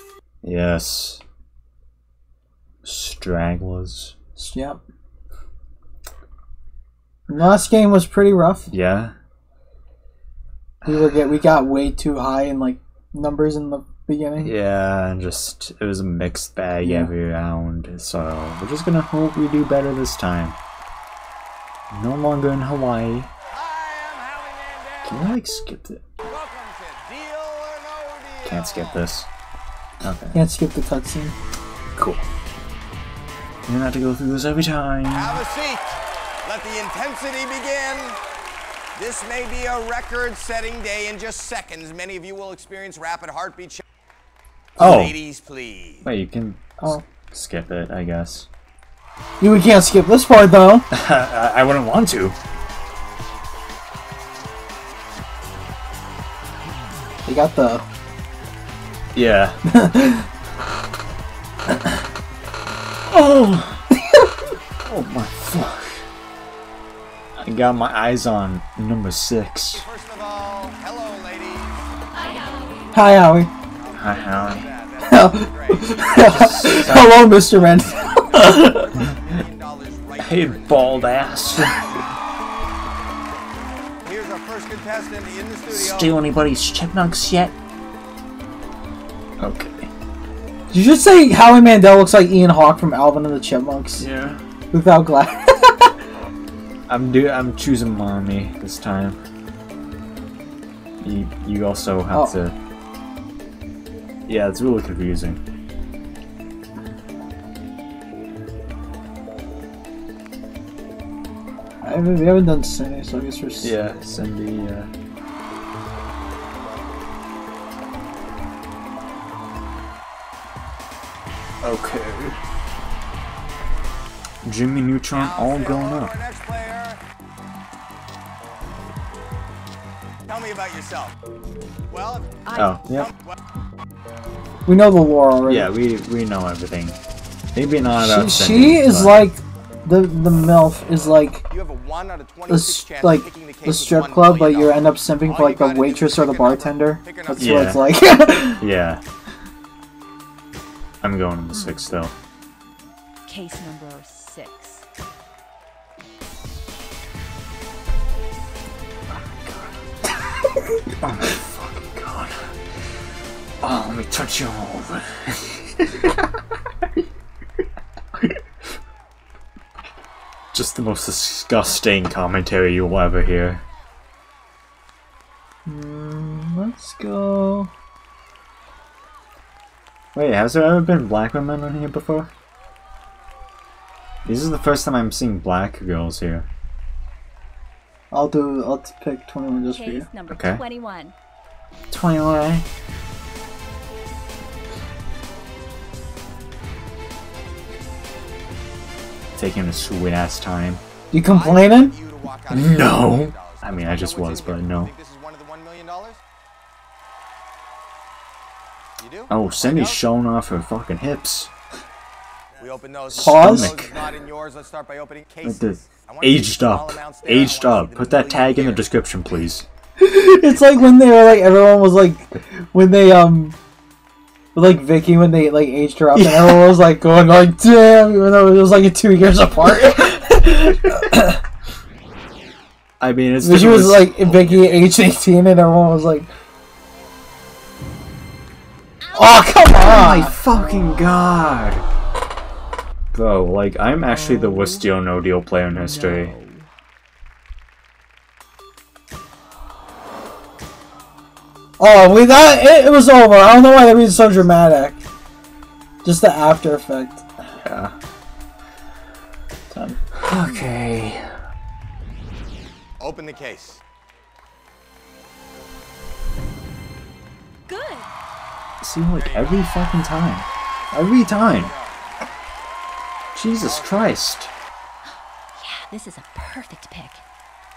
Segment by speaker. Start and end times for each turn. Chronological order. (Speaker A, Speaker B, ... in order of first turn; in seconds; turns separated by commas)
Speaker A: 0.4-1.2, Speaker A: 2.8-4.1, Speaker B: 4.3-4.8, Speaker B: 7.3-8.7, Speaker A: 8.7-9.2, Speaker B: 10.8-14.5, Speaker A: 14.4-20.6, Speaker B: 16.8-17.1, Speaker A: 21.9-23.3, Speaker C: 23.5-25.3, Speaker A: 25.1-26.0, Speaker C: 26.2-29.1, Speaker A: 28.4-29.3, Speaker A: 30.0-30.4, Speaker B: 30.3-31.4, Speaker A: 31.9-32.2, Speaker A: 33.7-35.4, Speaker C: 35.1-38.2, Speaker C: 39.0-43.8, Speaker A: 44.8-45.2, Speaker C: 44.8-46.0, Speaker A: 46.0-48.5, Speaker B: 49.4-50.9, Speaker A: 50.9-52.4, Speaker B: 57.2-57.9, Speaker A: 59.1-59.6, Speaker B: 59.7-60.3, Speaker A: 63.1-63.8, Speaker A: 64.8-66.0, Speaker A: 67.4-69.9, Speaker C: 69.7-71.9, Speaker D: 72.1-73.0, Speaker B: 72.9-73.5, Speaker C: 73.7-82.0, Speaker A: 73.9-74.7, Speaker B: 75.0-78.8, Speaker A: 76.0-77.2, Speaker A: 78.4-79.1, Speaker A: 80.2-81.9, Speaker C: 84.0-86.2, Speaker A: 85.7-87.5, Speaker A: 89.4-89.9, Speaker B: 90.7-94.1, Speaker A: 94.0-94.4, Speaker B: 94.7-96.0, Speaker A: 96.9-99.2, Speaker A: 101.0-102.6, Speaker A: 104.3-105.4, Speaker B: 111.8-113.7, Speaker A: 113.6-114.9, Speaker A: 121.6-122.4, Speaker A: 124.4-126.1, Speaker C: 125.1-127.0, Speaker C: 130.3-131.2, Speaker C: 131.9-133.4, Speaker D: 132.4-132.8, Speaker A: 132.5-133.1, Speaker B: 134.7-135.7, Speaker A: 135.4-137.0, Speaker A: 137.5-139.2, Speaker B: 137.9-141.4, Speaker C: 141.5-147.9, Speaker B: 142.5-148.6, Speaker A: 147.4-147.8, Speaker A: 148.6-149.0, Speaker A: 151.0-152.1, Speaker D: 151.5-151.9, Speaker D: 153.2-154.9, Speaker A: 159.1-159.8, Speaker A: 161.0-162.6, Speaker A: 163.6-166.3, Speaker A: 170.5-173.6, Speaker B: 175.6-177.7, Speaker A: 180.1-182.3, Speaker A: 184.2-186.5, Speaker B: 188.1-190.1, Speaker D: 189.7-191.1, Speaker A: 190.3-190.6, Speaker A: 191.9-192.7, Speaker A: 199.3-200.8, Speaker B: 201.1-201.9, Speaker C: 201.2-206.2, Speaker A: 202.5-204.9, Speaker C: 209.0-210.0, Speaker A: 209.3-211.5, Speaker C: 212.6-218.9, Speaker A: 213.1-213.9, Speaker B: 213.1-213.8, Speaker A: 215.4-219.6, Speaker B: 220.0-223.6, Speaker B: 224.5-231.4, Speaker A: 226.1-226.8, Speaker A: 233.0-234.9, Speaker B: 233.4-236.3, Speaker D: 239.0-239.7, Speaker B: 239.1-240.3, Speaker A: 239.8-241.8, Speaker A: 243.1-246.3, Speaker D: 244.1-244.9, Speaker D: 245.7-246.7, Speaker B: 251.8-255.0, Speaker B: 256.0-257.3, Speaker A: 257.6-257.9, Speaker B: 259.7-260.0, Speaker A: 260.1-261.3, Speaker C: 263.0-263.8, Speaker D: 267.7-268.1, Speaker A: 268.8-271.7, Speaker C: 269.1-269.7, Speaker C: 271.3-272.0, Speaker A: 273.3-274.5, Speaker C: 273.6-274.1, Speaker D: 275.1-277.2